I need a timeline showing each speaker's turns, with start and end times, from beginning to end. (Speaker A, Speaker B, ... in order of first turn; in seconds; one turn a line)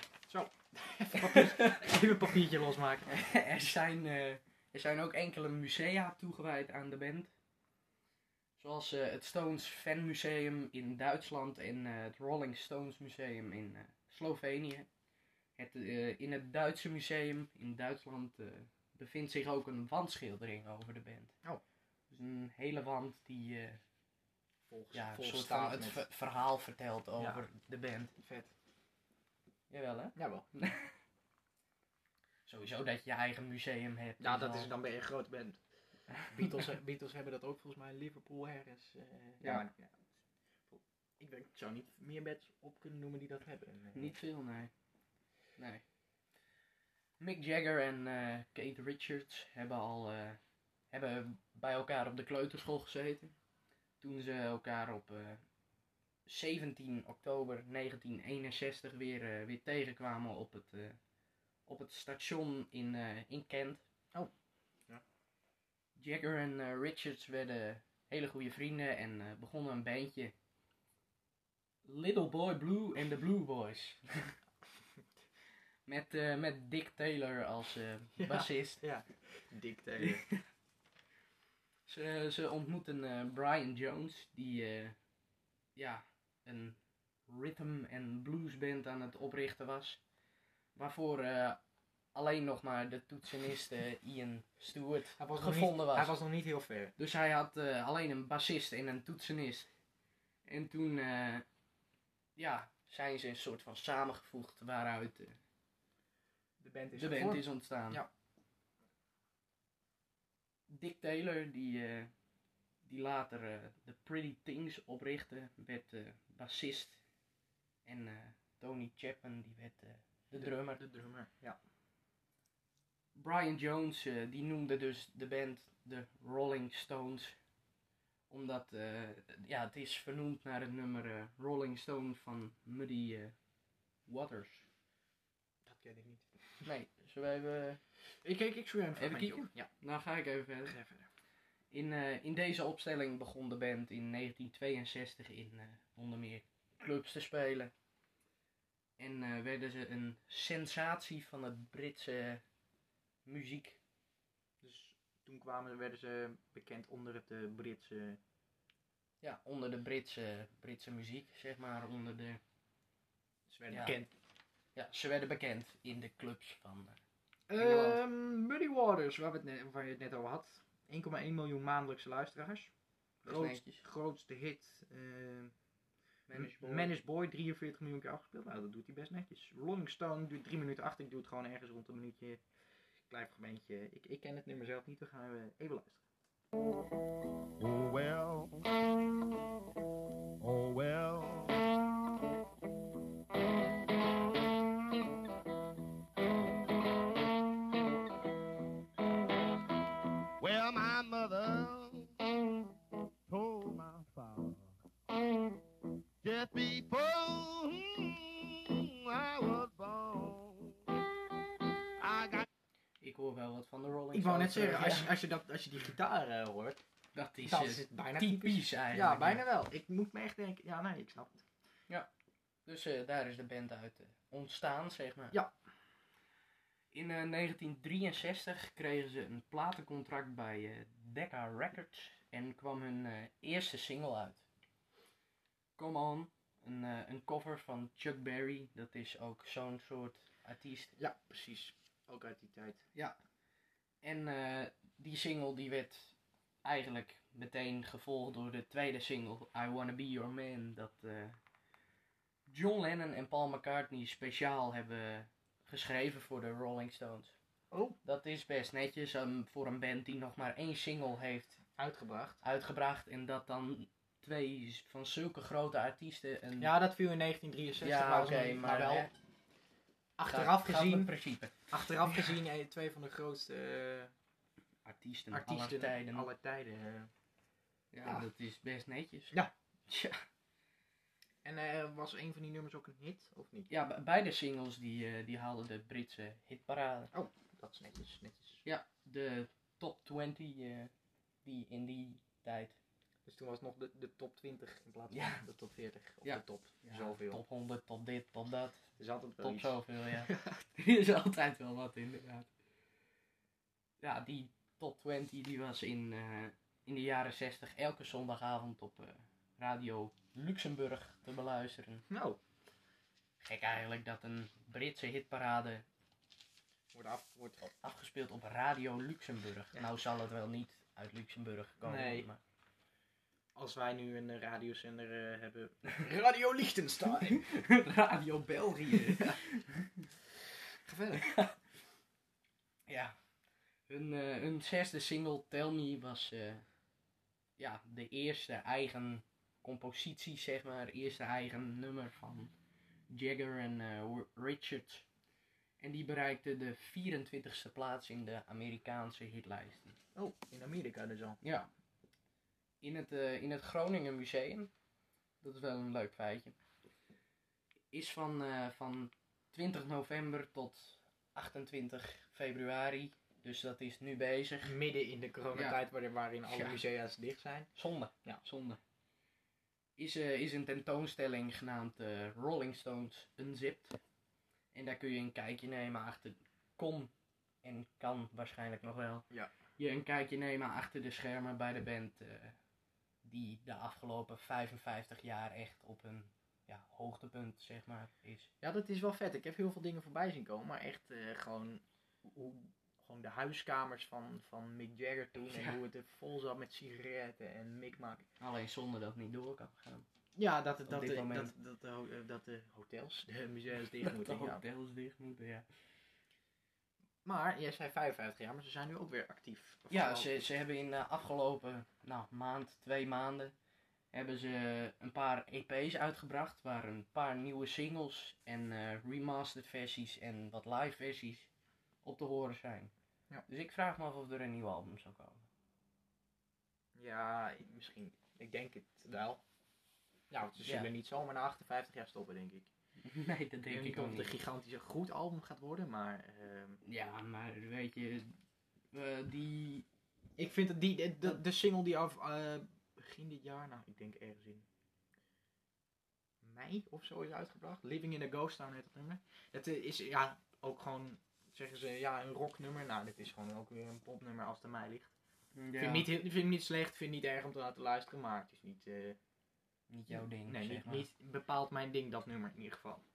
Speaker A: 0.3-3.1
Speaker B: 1.2-1.9
Speaker B: 3.1-7.3
Speaker B: 8.6-14.9
Speaker B: 15.6-21.3
Speaker B: 22.1-23.8
Speaker A: 24.7-26.0
Speaker B: 24.9-28.1
Speaker A: 27.2-27.4
Speaker A: 28.2-28.5
Speaker B: 29.7-30.9
Speaker A: 30.1-30.4
Speaker B: 32.5-34.7
Speaker A: 34.2-35.6
Speaker B: 36.2-36.5
Speaker A: 36.3-39.9
Speaker B: 39.4-39.6
Speaker A: 40.7-44.1
Speaker B: 43.9-44.7
Speaker B: 45.6-45.8
Speaker B: 47.2-50.4
Speaker B: 50.9-53.3
Speaker B: 54.0-55.4
Speaker B: 56.2-61.0
Speaker B: 61.6-63.8
Speaker B: 66.0-70.3
Speaker B: 71.8-74.3
Speaker B: 75.8-78.8
Speaker A: 78.2-80.3
Speaker B: 81.9-85.0
Speaker B: 85.8-86.8
Speaker B: 87.3-90.0
Speaker B: 90.7-91.6
Speaker B: 92.1-96.1
Speaker A: 95.2-96.9
Speaker B: 97.0-99.7
Speaker B: 100.5-101.4
Speaker B: 102.3-105.4
Speaker A: 106.6-108.1
Speaker B: 107.0-108.0
Speaker B: 110.7-112.1
Speaker B: 112.8-117.0
Speaker B: 117.8-120.8
Speaker A: 120.3-121.6
Speaker B: 123.1-127.3
Speaker B: 128.3-133.3
Speaker B: 134.1-134.7
Speaker A: 135.7-136.7
Speaker B: 136.6-137.8
Speaker A: 138.2-139.7
Speaker B: 138.9-140.8
Speaker A: 140.6-141.1
Speaker B: 141.7-147.7
Speaker B: 149.0-152.4
Speaker B: 153.2-153.8
Speaker A: 154.6-158.2
Speaker B: 159.2-162.4
Speaker A: 163.5-164.1
Speaker B: 163.7-163.9
Speaker B: 164.7-167.0
Speaker A: 167.5-172.7
Speaker B: 167.6-168.0
Speaker B: 173.2-173.8
Speaker A: 173.2-175.5
Speaker B: 176.3-176.9
Speaker A: 176.3-182.4
Speaker A: 183.1-186.0
Speaker C: 187.6-188.7
Speaker C: 190.4-191.6
Speaker C: 200.4-202.2
Speaker C: 203.3-204.7
Speaker C: 206.2-210.8
Speaker C: 212.0-212.4
Speaker B: 213.0-215.1
Speaker A: 214.1-216.8
Speaker B: 217.1-219.4
Speaker A: 217.4-221.4
Speaker B: 222.6-225.4
Speaker B: 226.9-234.4
Speaker B: 235.8-240.9
Speaker A: 241.0-242.8
Speaker B: 244.0-251.4
Speaker B: 252.5-257.3
Speaker A: 257.7-258.0
Speaker B: 258.0-261.6
Speaker A: 261.8-262.4
Speaker B: 262.4-266.7
Speaker A: 266.6-269.1
Speaker B: 267.8-269.1
Speaker A: 270.2-271.1
Speaker B: 270.2-272.3
Speaker A: 271.7-274.1
Speaker B: 274.8-276.3
Speaker A: 275.3-277.1
Speaker B: 277.9-279.4
Speaker B: 279.9-280.2
Speaker A: 281.4-283.7
Speaker B: 283.7-287.1
Speaker A: 287.1-288.6
Speaker B: 288.6-290.9
Speaker B: 291.4-292.8
Speaker A: 293.2-297.4
Speaker B: 295.1-295.4
Speaker B: 296.2-298.8
Speaker A: 299.0-300.6
Speaker B: 299.4-302.5
Speaker B: 304.0-312.1
Speaker A: 312.1-312.4
Speaker B: 313.4-315.8
Speaker A: 316.9-317.7
Speaker B: 317.6-322.4
Speaker A: 321.8-322.3
Speaker A: 323.5-327.5
Speaker B: 327.3-329.4
Speaker A: 329.1-329.4
Speaker A: 330.8-331.3
Speaker B: 331.2-331.5
Speaker B: 332.9-333.1
Speaker B: 333.9-336.6
Speaker B: 337.6-342.5
Speaker B: 343.1-345.1
Speaker B: 345.8-350.0
Speaker A: 350.1-351.4
Speaker B: 351.4-351.7
Speaker B: 352.8-354.7
Speaker B: 355.4-356.5
Speaker B: 357.9-364.8
Speaker A: 364.6-367.7
Speaker B: 365.5-365.8
Speaker B: 366.5-366.8
Speaker B: 367.7-368.8
Speaker B: 370.0-374.0
Speaker B: 374.7-377.1
Speaker B: 377.6-379.3
Speaker B: 379.8-382.6
Speaker B: 383.2-388.5
Speaker A: 388.6-398.2
Speaker B: 395.4-395.8
Speaker B: 398.4-400.1
Speaker A: 400.4-404.6
Speaker B: 400.9-401.5
Speaker B: 403.9-405.7
Speaker A: 407.2-410.3
Speaker B: 409.9-413.5
Speaker B: 414.1-421.5
Speaker B: 422.0-422.9
Speaker B: 423.5-425.4
Speaker A: 426.9-429.4
Speaker A: 430.3-432.7
Speaker B: 430.6-430.9
Speaker B: 433.0-434.4
Speaker A: 433.7-436.8
Speaker B: 436.8-438.3
Speaker B: 438.9-439.9
Speaker A: 440.4-444.6
Speaker A: 446.4-455.1
Speaker B: 455.5-456.1
Speaker A: 455.8-459.2
Speaker B: 459.9-461.1
Speaker A: 460.1-463.0